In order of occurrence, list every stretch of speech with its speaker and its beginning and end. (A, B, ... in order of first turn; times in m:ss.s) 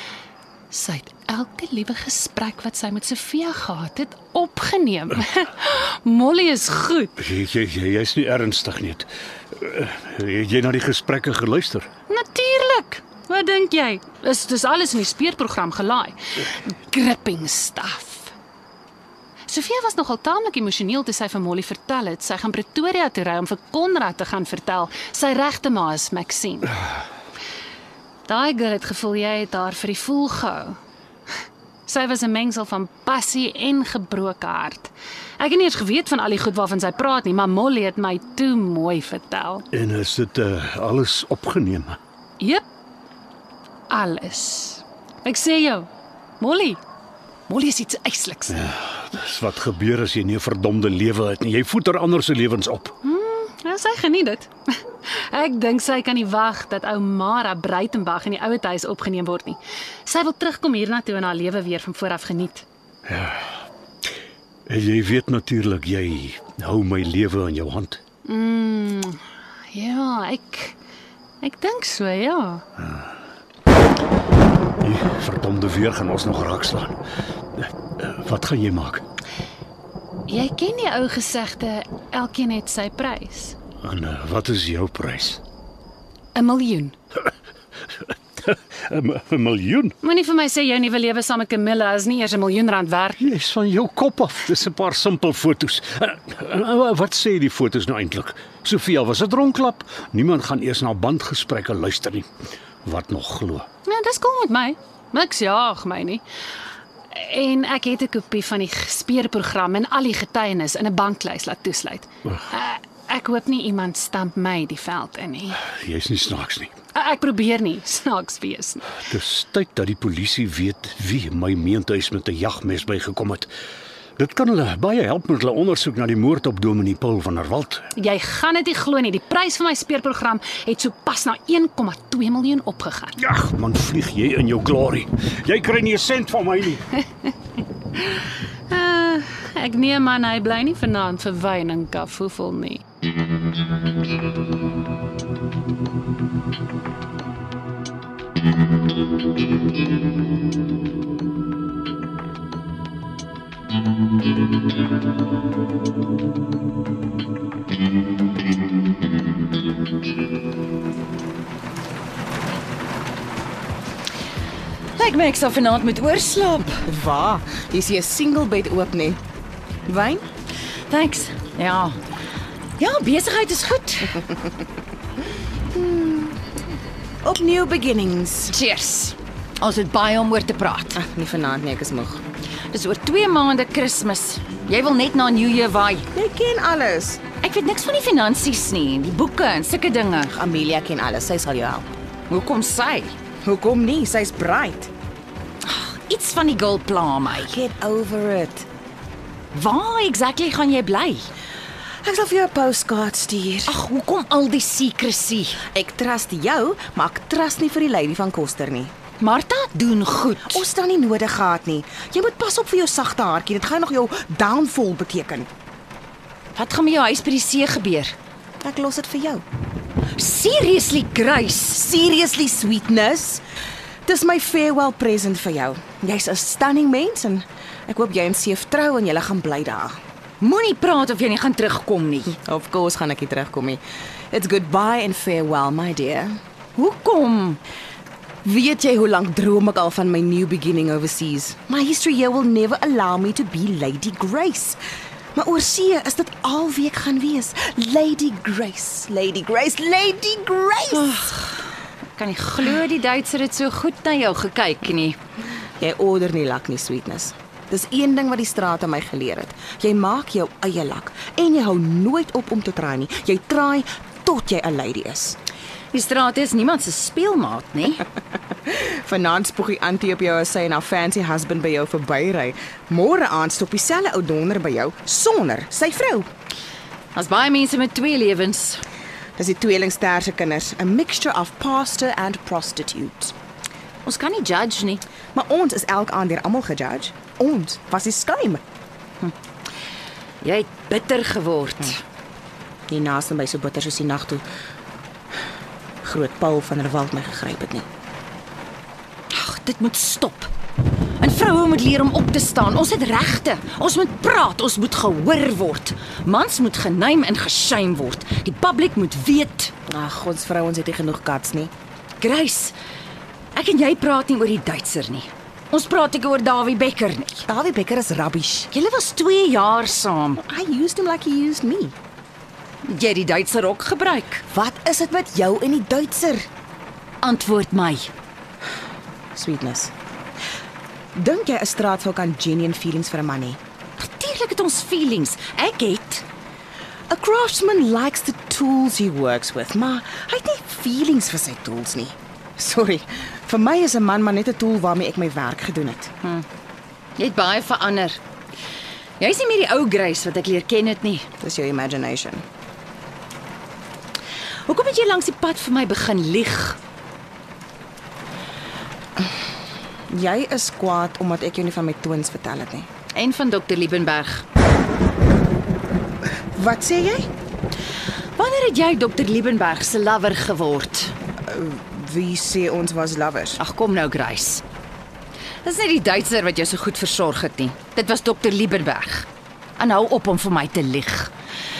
0:00.7-0:07.2 A
0:07.2-0:11.9 B
0:12.1-0:18.3 A
0:19.5-0:26.8 A
0:28.2-0:30.8 A
0:31.9-0:39.6 A
0:39.7-0:42.0 B
0:43.9-0:45.9 A
0:46.4-0:46.8 A
0:47.5-0:48.6 A
0:48.5-0:52.9 B
0:53.0-0:54.5 A
0:55.1-1:02.6 A
1:03.1-1:03.5 B
1:04.7-1:08.0 B
1:08.2-1:09.2 A
1:09.7-1:10.8 A
1:11.4-1:12.6 A
1:12.8-1:13.1 B
1:14.8-1:17.0 B
1:17.6-1:19.0 B
1:20.3-1:23.6 A
1:23.8-1:25.4 B
1:26.3-1:26.9 A
1:28.4-1:29.9 B
1:30.0-1:33.3 A
1:33.2-1:42.3 B
1:42.8-1:43.7 B
1:43.8-1:46.2 A
1:47.1-1:55.6 A
1:55.6-1:56.7 B
1:56.9-1:59.0 A
1:59.0-2:03.5 B
2:04.2-2:07.9 B
2:07.9-2:13.2 A
2:13.2-2:16.9 B
2:18.7-2:22.8 A
2:45.0-2:46.8 C
2:46.9-2:49.2 D
2:49.9-2:50.2 D
2:50.9-2:52.0 C
2:52.8-2:54.2 C
2:55.7-2:56.4 D
2:57.2-2:58.5 D
2:58.5-3:01.0 C
3:00.9-3:02.2 D
3:02.7-3:06.1 C
3:06.1-3:07.2 D
3:07.4-3:10.3 C
3:10.3-3:11.9 D
3:12.3-3:13.1 C
3:13.4-3:14.9 D
3:15.6-3:17.5 C
3:17.4-3:18.6 D
3:19.5-3:21.3 C
3:22.0-3:23.7 D
3:23.7-3:25.6 C
3:25.7-3:28.9 D
3:29.2-3:30.6 C
3:30.5-3:35.5 D
3:36.5-3:38.2 C
3:38.6-3:39.4 D
3:40.2-3:41.8 C
3:41.8-3:43.4 D
3:44.0-3:50.0 D
3:50.4-3:52.3 C
3:52.4-3:53.8 D
3:54.3-3:56.4 D
3:56.8-3:57.6 C
3:58.4-4:04.8 D
4:05.3-4:11.4 D
4:11.1-4:11.5 C
4:12.2-4:15.2 C
4:15.8-4:25.4 D
4:25.9-4:28.0 C
4:28.7-4:36.3 D
4:37.1-4:38.8 C
4:39.4-4:43.3 D
4:44.0-4:45.0 C
4:45.3-4:48.6 D
4:50.4-4:52.0 C
4:52.9-4:54.4 D
4:56.0-4:57.8 D
4:59.3-5:00.5 C
5:01.2-5:09.7 C
5:09.9-5:11.7 D
5:12.2-5:12.8 C
5:13.5-5:17.4 C
5:17.4-5:18.7 D
5:18.7-5:20.4 C
5:20.4-5:21.9 D
5:22.8-5:24.4 C
5:24.5-5:26.5 D
5:27.2-5:28.1 C
5:29.3-5:29.9 D
5:31.2-5:33.6 D
5:34.0-5:36.2 C
5:37.1-5:46.1 D
5:47.2-5:48.2 C
5:49.2-5:51.3 C
5:51.4-5:52.4 D
5:54.7-5:56.8 C
6:00.1-6:02.9 D
6:03.1-6:04.4 C
6:06.5-6:07.3 D
6:08.4-6:11.1 C
6:11.5-6:13.6 D
6:13.6-6:14.6 C
6:15.6-6:21.3 C